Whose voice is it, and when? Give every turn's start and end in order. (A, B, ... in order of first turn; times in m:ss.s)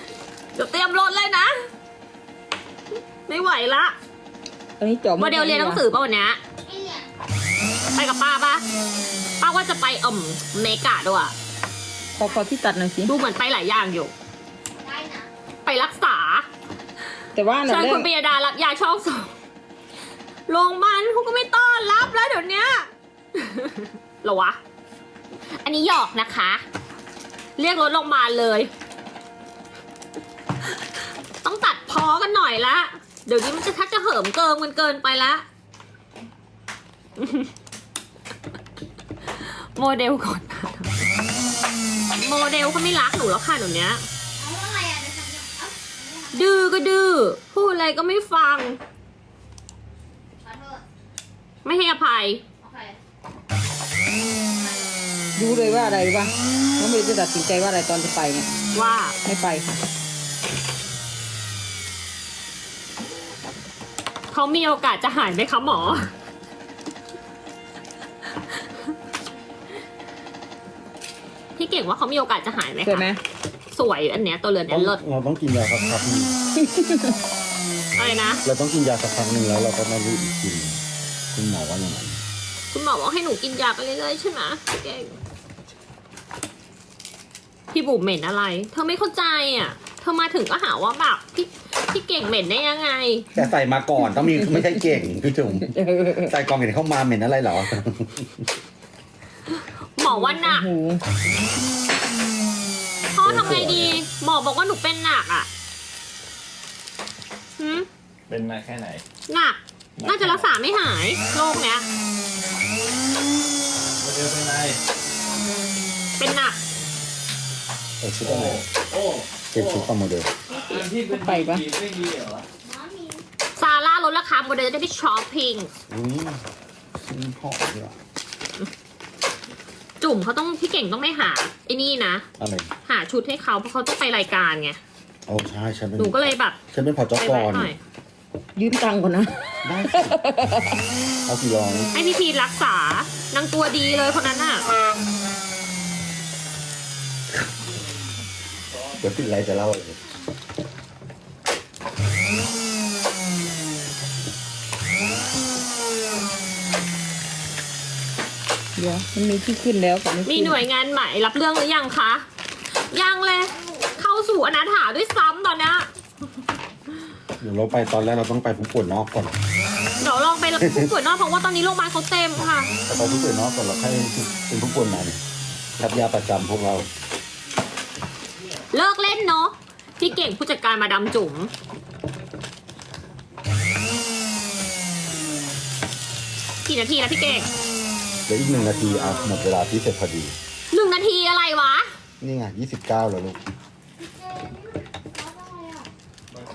0:00.6-0:01.7 A
0:03.3-0:04.0 A
0:04.8-0:05.8 B
0:05.2-0:06.4 A
0:06.7-0:07.1 C
0:07.9-0:08.6 A
0:09.4-0:11.4 A
0:12.2-0:13.1 B
0:13.0-0:14.1 A
0:14.8-0:15.3 C
0:15.6-0:16.5 A
0:17.4-0:18.1 B
0:17.6-0:19.3 A
0:20.5-0:24.6 A
0:25.6-0:26.6 A
0:27.6-0:28.7 A
0:31.4-0:35.5 A
0:37.2-0:37.5 A
0:39.3-0:41.1 A
0:42.1-0:44.1 A
0:44.4-0:46.3 C
0:46.3-0:48.8 A
0:50.4-0:50.8 C
0:51.6-0:52.4 A
0:52.6-0:53.0 C
0:54.6-0:54.9 C
0:55.4-0:58.5 B
0:58.7-0:59.2 A
0:59.2-0:59.8 B
1:04.3-1:06.1 A
1:11.6-1:13.1 A
1:12.8-1:13.2 B
1:13.7-1:15.0 A
1:14.7-1:16.3 D
1:16.6-1:17.2 B
1:18.0-1:18.4 A
1:18.4-1:22.2 D
1:22.7-1:25.2 A
1:27.7-1:33.3 A
1:33.3-1:38.4 D
1:35.6-1:36.3 B
1:39.6-1:40.7 A
1:40.1-1:41.0 B
1:43.1-1:45.5 A
1:43.2-1:44.0 D
1:47.6-1:47.9 A
1:48.3-1:49.0 E
1:49.3-1:51.9 A
1:50.0-1:50.5 E
1:54.0-1:54.8 E
1:56.2-1:56.6 A
1:58.0-1:58.6 D
1:58.2-1:59.9 E
1:59.5-2:00.3 D
2:00.5-2:02.5 E
2:01.1-2:01.6 B
2:02.6-2:03.2 C
2:03.6-2:05.7 A
2:05.9-2:06.4 D
2:07.0-2:08.0 D
2:10.0-2:12.3 A
2:12.4-2:12.7 D
2:12.8-2:14.8 A
2:15.3-2:17.7 D
2:16.0-2:16.6 A
2:17.2-2:17.8 A
2:18.6-2:20.8 B
2:19.6-2:20.5 D
2:21.2-2:21.9 D
2:21.9-2:24.6 A
2:28.7-2:29.3 E
2:29.0-2:30.0 D
2:38.8-2:40.6 B
2:40.2-2:45.9 A
2:47.4-2:49.4 D
2:50.0-2:52.7 A
2:50.6-2:50.9 D
2:52.9-2:55.2 D
2:55.8-2:56.9 D
2:58.7-3:01.5 A
3:06.6-3:07.5 A
3:08.3-3:10.4 D
3:10.7-3:11.9 A
3:12.2-3:13.4 D
3:14.1-3:15.9 C